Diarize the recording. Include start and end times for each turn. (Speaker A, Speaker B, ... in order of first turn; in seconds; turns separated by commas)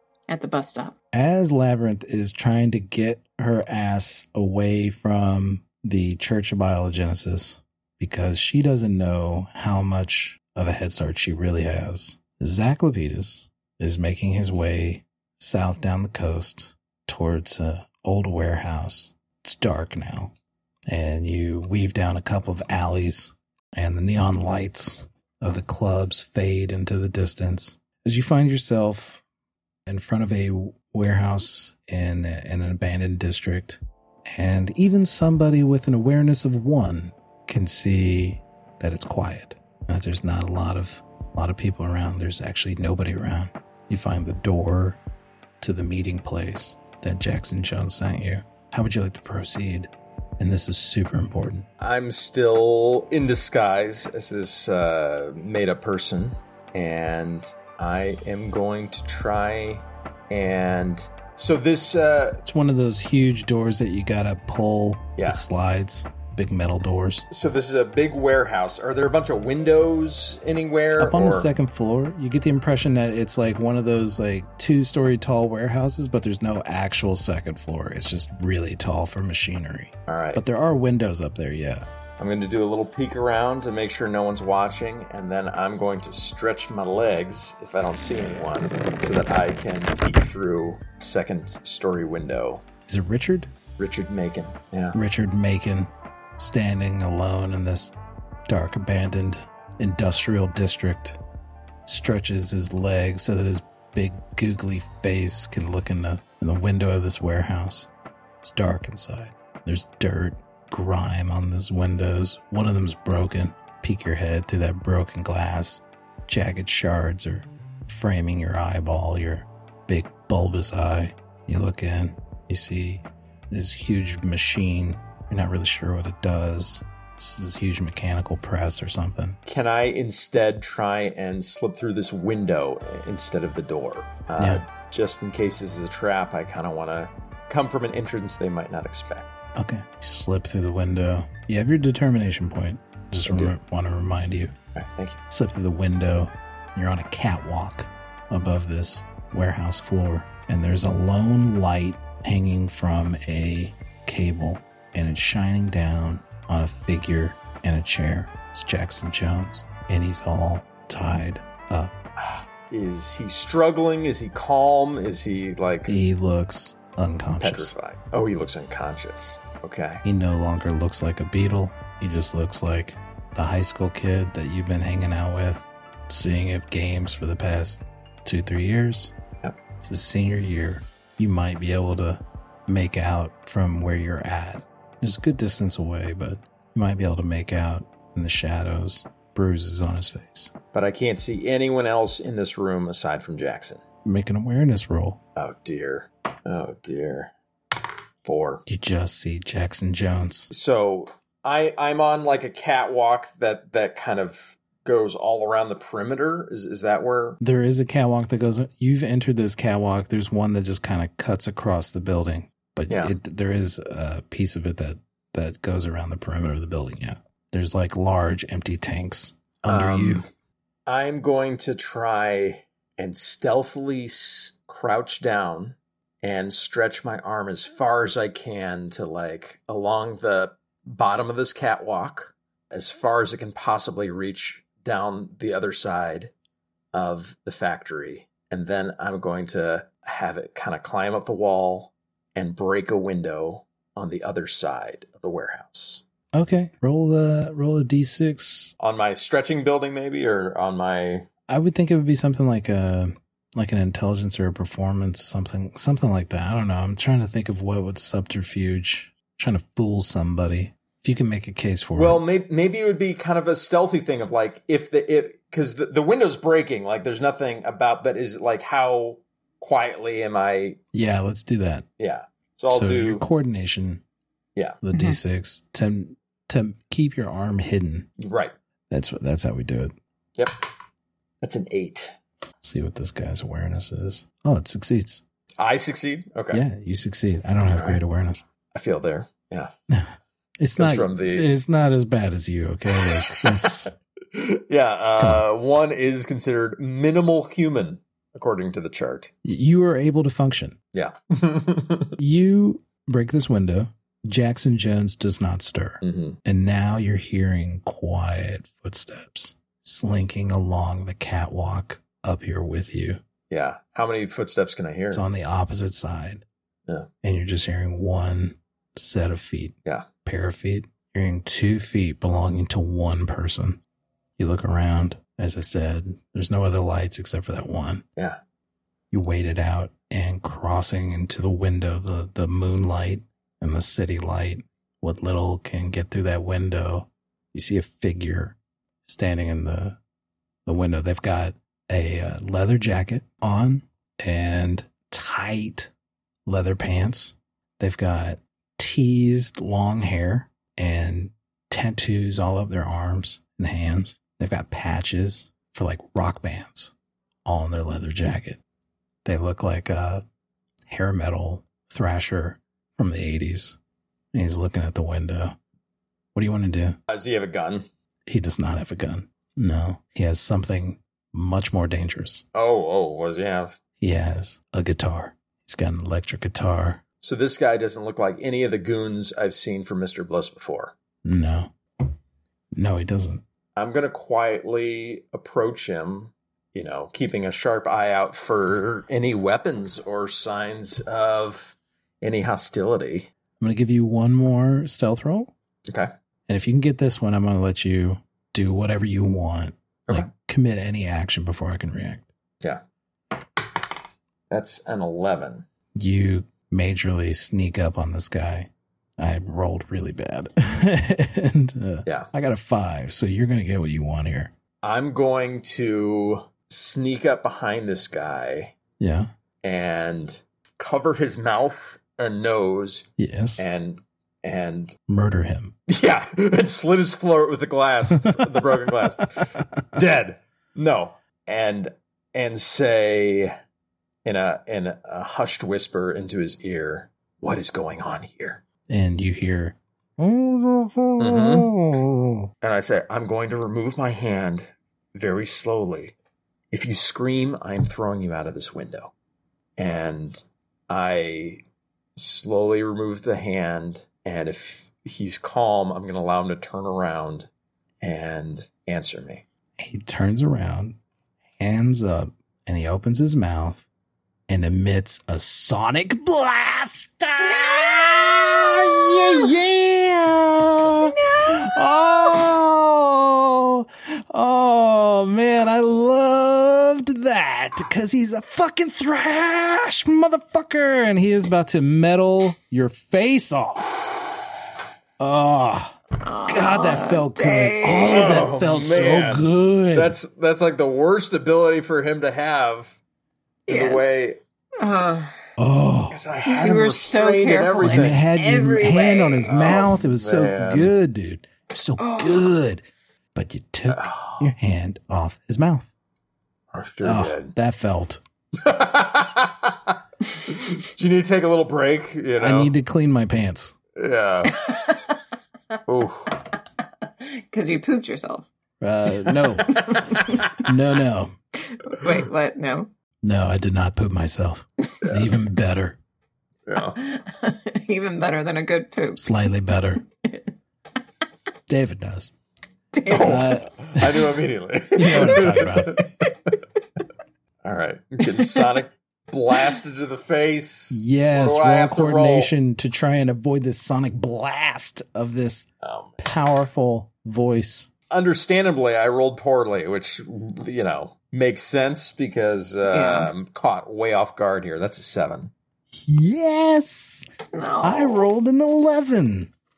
Speaker A: 0.3-0.9, Speaker B: 1.1-20.3, Speaker B: 20.9-29.2, Speaker B: 29.9-45.0, Speaker B: 45.6-51.7, Speaker C: 51.8-62.4, Speaker B: 62.5-67.3, Speaker C: 65.2-65.5, Speaker C: 67.3-71.5, Speaker B: 71.0-81.9, Speaker C: 80.1-80.4, Speaker C: 82.2-92.6, Speaker B: 92.9-93.5, Speaker C: 93.8-95.0, Speaker B: 94.9-97.9, Speaker B: 98.5-101.2, Speaker B: 101.9-107.9, Speaker B: 108.4-129.4, Speaker C: 129.5-139.3, Speaker B: 134.4-134.7, Speaker B: 139.6-144.5, Speaker C: 143.3-143.5, Speaker C: 144.8-145.2, Speaker B: 145.3-161.9, Speaker C: 162.2-165.9, Speaker B: 165.9-167.7, Speaker C: 167.4-170.0, Speaker B: 170.0-179.1, Speaker B: 179.8-190.5, Speaker C: 190.7-193.8, Speaker B: 194.1-195.2, Speaker C: 195.4-197.3, Speaker C: 198.2-198.6, Speaker B: 198.7-200.5, Speaker C: 200.5-207.4, Speaker B: 207.4-220.2, Speaker C: 219.7-220.3, Speaker C: 220.9-236.3, Speaker C: 236.9-246.0, Speaker B: 246.3-248.7, Speaker C: 248.8-251.3, Speaker B: 251.5-262.2, Speaker C: 262.0-270.8, Speaker B: 270.9-271.9, Speaker C: 272.0-273.2, Speaker B: 272.7-274.0, Speaker B: 274.8-278.1, Speaker A: 274.9-275.2, Speaker C: 278.2-278.5, Speaker B: 278.9-279.9, Speaker C: 281.4-282.1, Speaker B: 282.6-285.2, Speaker C: 285.6-286.6, Speaker B: 286.5-288.4, Speaker C: 287.7-288.0, Speaker C: 288.7-289.7, Speaker B: 289.9-293.9, Speaker C: 290.8-291.5, Speaker C: 292.9-299.3, Speaker B: 295.2-295.4, Speaker B: 299.4-300.8, Speaker C: 300.9-302.2, Speaker B: 302.2-313.2, Speaker C: 306.0-306.4, Speaker C: 313.5-315.2, Speaker B: 315.1-316.4, Speaker B: 317.2-323.8, Speaker B: 324.4-328.0, Speaker B: 329.1-340.0, Speaker B: 340.7-345.9, Speaker B: 346.5-356.9, Speaker B: 357.4-358.6, Speaker B: 359.2-360.2, Speaker B: 360.9-363.8, Speaker B: 364.3-365.6, Speaker B: 366.4-367.0, Speaker C: 367.1-367.9, Speaker B: 368.3-372.4, Speaker C: 372.5-373.8, Speaker B: 374.0-377.0, Speaker C: 377.2-380.9, Speaker B: 381.2-381.7, Speaker B: 382.8-383.4, Speaker C: 383.8-393.3, Speaker B: 393.6-395.5, Speaker B: 396.5-402.3, Speaker C: 404.5-405.6, Speaker B: 406.0-414.5, Speaker C: 414.8-418.8, Speaker B: 419.0-419.3, Speaker C: 419.6-425.0, Speaker B: 423.2-423.6, Speaker B: 425.1-425.8, Speaker C: 425.9-433.5, Speaker B: 428.1-428.6, Speaker B: 429.4-429.8, Speaker C: 434.2-438.6, Speaker B: 438.9-442.5, Speaker C: 441.2-441.7, Speaker C: 442.6-446.1, Speaker C: 446.7-449.1, Speaker C: 449.8-451.6, Speaker C: 452.2-457.5, Speaker C: 458.0-459.4, Speaker B: 459.8-461.0, Speaker B: 461.6-463.9, Speaker B: 464.5-483.9, Speaker A: 467.4-468.2, Speaker A: 468.8-469.5, Speaker A: 471.0-472.1, Speaker B: 485.2-490.1, Speaker A: 486.2-488.5, Speaker C: 488.0-493.0, Speaker A: 493.7-494.1, Speaker C: 493.7-494.4, Speaker A: 494.8-495.4, Speaker B: 495.6-496.2, Speaker C: 496.1-498.2, Speaker A: 496.4-499.5, Speaker B: 497.8-502.8, Speaker C: 499.5-500.9, Speaker A: 502.0-502.5, Speaker B: 503.3-505.9, Speaker C: 503.9-504.5, Speaker C: 506.7-507.6, Speaker B: 507.0-508.2, Speaker C: 508.6-512.7, Speaker B: 512.4-513.7, Speaker C: 514.0-514.6, Speaker A: 514.5-515.2, Speaker C: 515.9-516.4, Speaker A: 517.2-518.5, Speaker B: 518.8-521.3, Speaker A: 519.4-520.6, Speaker A: 521.7-522.9, Speaker B: 523.2-526.0, Speaker C: 526.7-527.0, Speaker A: 527.0-529.3, Speaker B: 529.2-530.0, Speaker B: 531.7-532.3, Speaker A: 532.9-533.7, Speaker C: 533.1-536.5, Speaker B: 533.2-534.3, Speaker B: 535.0-536.0, Speaker C: 537.6-542.5, Speaker A: 538.2-538.6, Speaker B: 540.9-545.7, Speaker C: 545.8-546.2, Speaker B: 546.2-547.9, Speaker C: 548.1-555.5, Speaker A: 552.9-553.3, Speaker B: 555.9-557.3, Speaker A: 557.5-558.3, Speaker B: 557.8-559.5